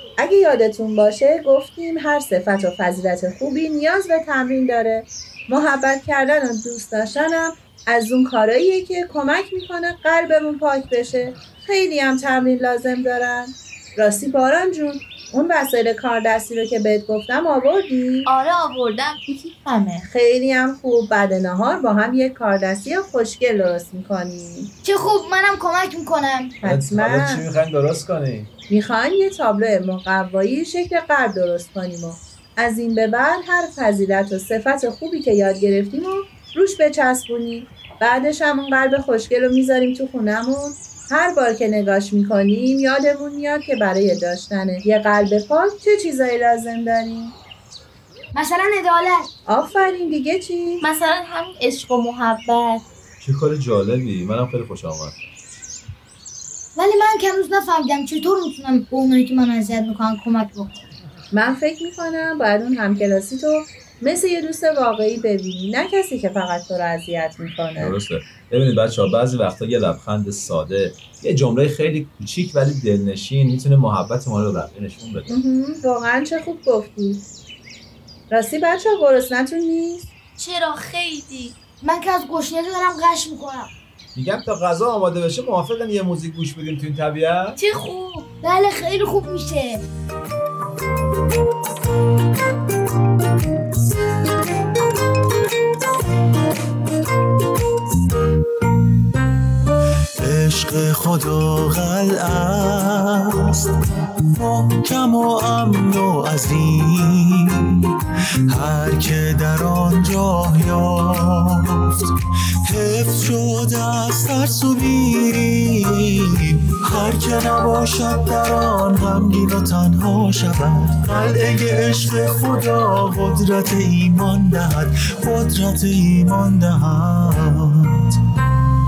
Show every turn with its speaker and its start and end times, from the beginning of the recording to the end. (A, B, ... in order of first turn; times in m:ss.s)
0:00.2-0:18.3 A
0:18.2-0:20.1 B
0:20.1-0:24.7 A
0:24.8-0:26.6 C
0:26.6-0:28.5 D
0:26.6-0:27.4 A
0:28.7-0:47.4 A
0:48.4-0:49.3 C
0:49.5-0:50.8 A
0:50.8-0:52.8 B
0:53.2-0:55.2 D
0:56.8-1:00.8 C
1:01.3-1:08.0 A
1:07.8-1:15.3 D
1:15.3-1:17.3 A
1:18.3-1:20.1 A
1:20.4-1:21.6 B
1:21.8-1:23.7 C
1:24.2-1:27.6 D
1:27.6-1:28.4 B
1:28.4-1:29.8 C
1:40.2-1:47.9 E
1:48.5-1:52.1 E
1:52.6-2:08.2 E